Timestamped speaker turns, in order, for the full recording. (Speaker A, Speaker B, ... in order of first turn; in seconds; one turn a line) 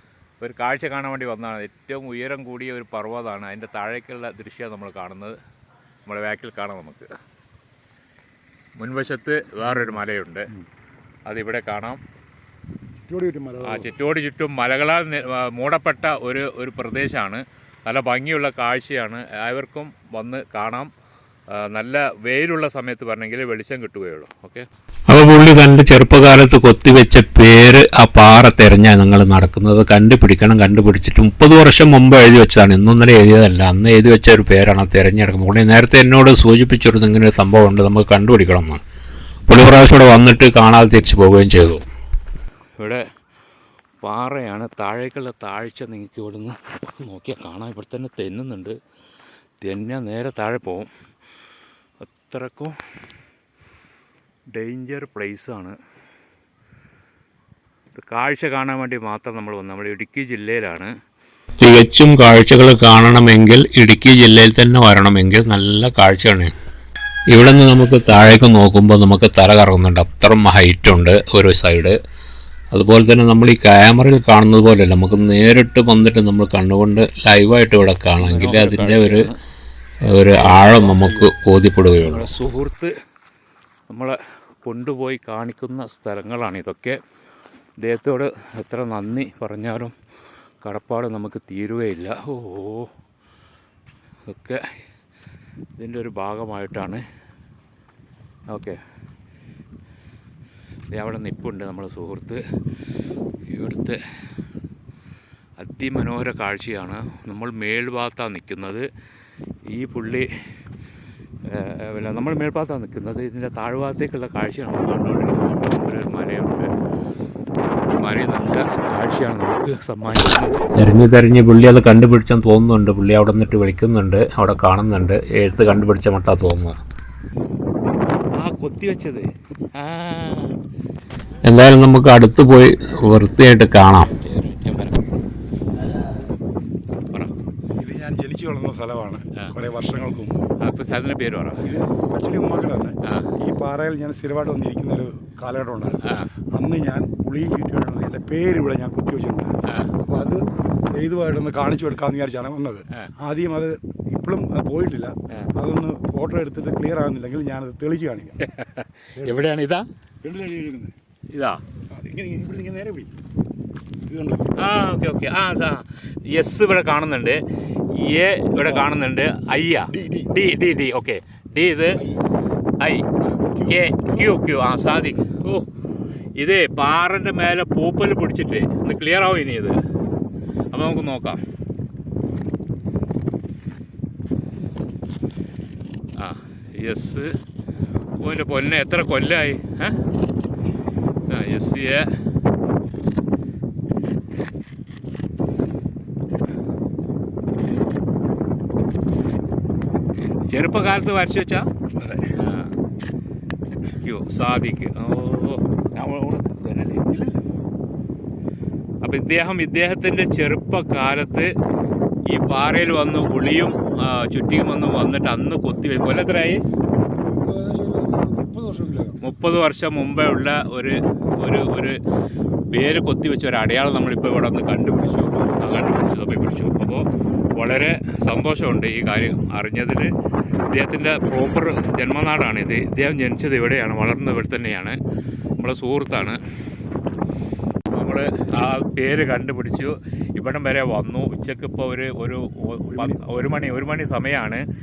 Speaker A: 0.4-5.4
Speaker A: 6.1-7.1
Speaker A: 8.8-10.5
Speaker A: 11.3-12.0
Speaker B: 13.1-13.9
Speaker A: 13.6-20.9
Speaker A: 21.5-24.7
Speaker C: 25.1-38.8
Speaker C: 39.5-41.9
Speaker A: 42.8-43.0
Speaker A: 44.0-48.8
Speaker A: 49.6-50.9
Speaker A: 52.0-52.8
Speaker A: 54.5-55.8
Speaker A: 57.9-60.9
Speaker C: 61.6-66.5
Speaker C: 67.3-72.0
Speaker C: 72.7-79.3
Speaker A: 78.2-79.4
Speaker C: 80.1-82.3
Speaker A: 80.3-81.3
Speaker A: 82.0-82.9
Speaker A: 83.9-87.0
Speaker A: 87.8-90.0
Speaker A: 90.6-92.9
Speaker A: 94.3-94.7
Speaker A: 95.8-97.0
Speaker A: 98.5-98.8
Speaker A: 100.9-102.4
Speaker A: 103.5-104.0
Speaker A: 105.6-108.9
Speaker A: 109.7-110.3
Speaker A: 111.5-116.7
Speaker A: 118.0-120.7
Speaker C: 120.8-126.8
Speaker A: 128.3-130.6
Speaker C: 131.4-134.1
Speaker A: 134.1-135.1
Speaker B: 137.8-140.5
Speaker A: 140.6-141.8
Speaker B: 141.6-158.4
Speaker A: 143.0-143.3
Speaker A: 146.0-146.3
Speaker A: 149.7-149.9
Speaker A: 158.4-159.9
Speaker B: 159.2-159.4
Speaker B: 160.2-160.9
Speaker A: 161.3-161.6
Speaker B: 161.9-163.1
Speaker B: 164.1-164.5
Speaker A: 164.6-172.0
Speaker B: 168.6-168.9
Speaker B: 169.9-170.3
Speaker B: 172.0-172.2
Speaker A: 172.8-173.1
Speaker B: 173.2-174.3
Speaker A: 173.7-175.7
Speaker A: 176.4-179.8
Speaker A: 180.7-181.4
Speaker A: 186.2-187.3
Speaker A: 188.2-190.0
Speaker A: 191.3-192.1
Speaker A: 200.5-201.7
Speaker B: 202.0-202.4
Speaker A: 202.3-202.8
Speaker A: 204.0-207.0
Speaker B: 207.1-207.5
Speaker A: 209.0-211.5
Speaker A: 212.3-216.6
Speaker B: 217.1-219.2
Speaker A: 219.2-222.0
Speaker A: 222.7-230.1
Speaker B: 225.1-225.7
Speaker A: 230.7-235.0
Speaker A: 235.6-236.4
Speaker A: 237.9-244.6
Speaker B: 242.9-243.8